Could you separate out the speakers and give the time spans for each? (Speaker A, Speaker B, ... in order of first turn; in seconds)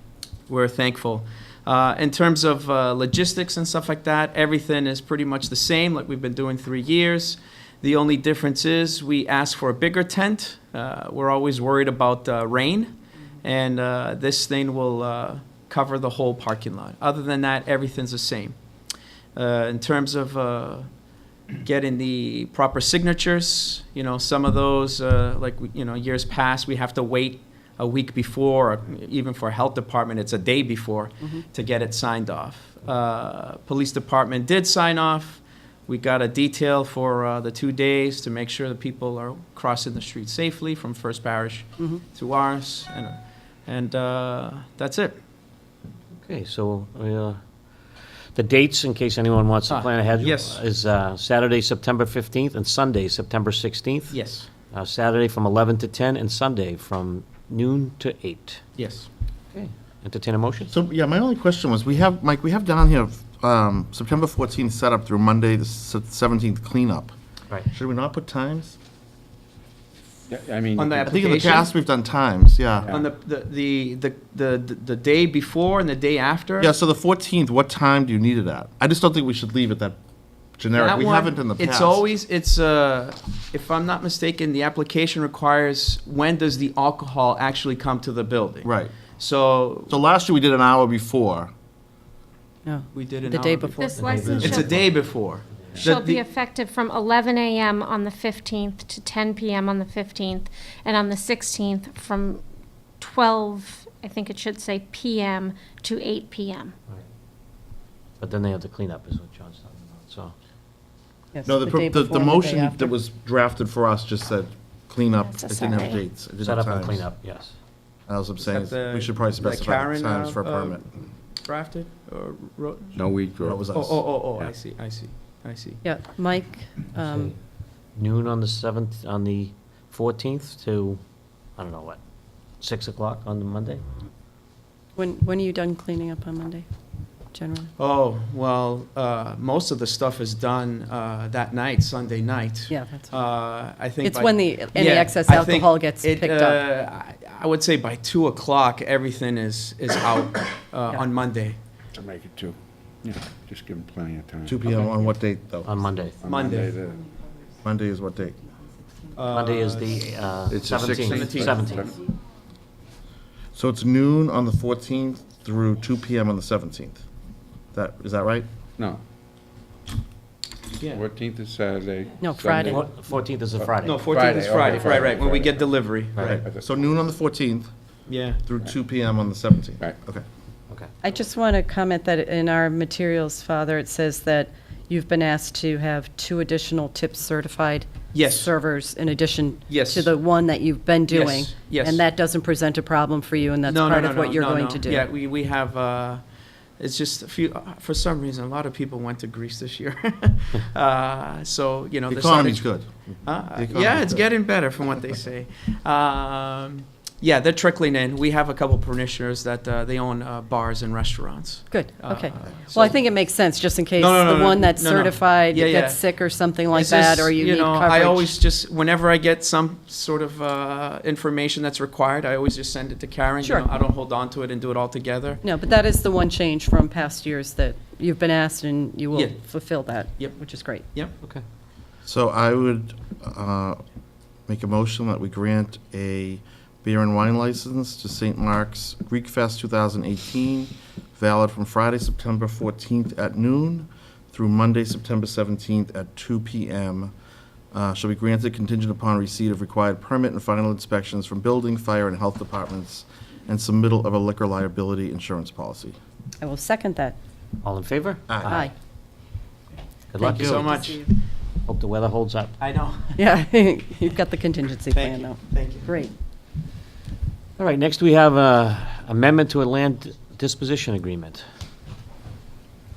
Speaker A: 0.5-18.6, 19.3-45.2, 49.7-50.6, 54.1-54.5, 58.8-59.1, 70.8-71.7, 72.9-76.7, 80.7-90.0, 92.9-93.7, 94.3-96.2, 118.4-120.8, 121.4-123.0, 123.7-125.8, 137.8-151.6, 156.2-156.7, 159.2-159.9, 161.0-161.6, 170.8-171.0, 173.8-176.4, 178.1-178.4, 188.1-188.5, 189.7-190.1, 191.1-192.0, 193.7-196.2, 196.8-202.7, 203.2-213.0, 214.0-216.0, 216.7-225.4, 260.2-261.1, 262.6-263.2, 264.9-265.9
Speaker B: 46.1-47.4, 48.3-58.8, 59.5-60.7, 93.9-95.8, 108.2-110.3, 116.4-117.5, 126.9-127.3, 127.9-131.0, 131.5-132.0, 132.6-133.8, 155.6-156.2, 159.3-161.9, 172.6-174.1, 176.1-176.4, 257.6-258.7, 260.1-260.7, 261.6-262.6, 267.6-271.4
Speaker C: 60.7-67.1, 67.7-68.8, 71.0-72.9, 76.6-80.0, 80.6-82.0, 88.6-88.9, 89.9-91.5, 111.4-117.1, 118.1-120.8, 123.4-124.0, 154.4-155.7, 157.6-158.4, 163.5-167.0, 167.7-168.5, 176.2-177.7, 178.4-180.2, 202.1-204.2, 232.0-233.8, 234.5-247.1, 247.7-256.0, 258.3-258.6
Speaker D: 70.3-71.6, 72.8-73.1, 122.9-124.5, 151.9-154.9, 156.2-157.0, 160.5-162.0, 168.8-169.0, 170.9-172.8, 173.6-176.7
Speaker E: 92.6-94.6, 111.3-112.9, 125.8-127.3, 134.9-136.7, 137.3-137.7, 142.7-143.2, 144.0-146.6, 172.2-172.7, 181.0-195.1, 211.7-218.4, 225.4-230.8, 256.4-257.2, 260.2-261.1, 263.1-266.1
Speaker F: 93.8-94.8, 95.8-102.4, 103.0-106.7, 115.3-116.0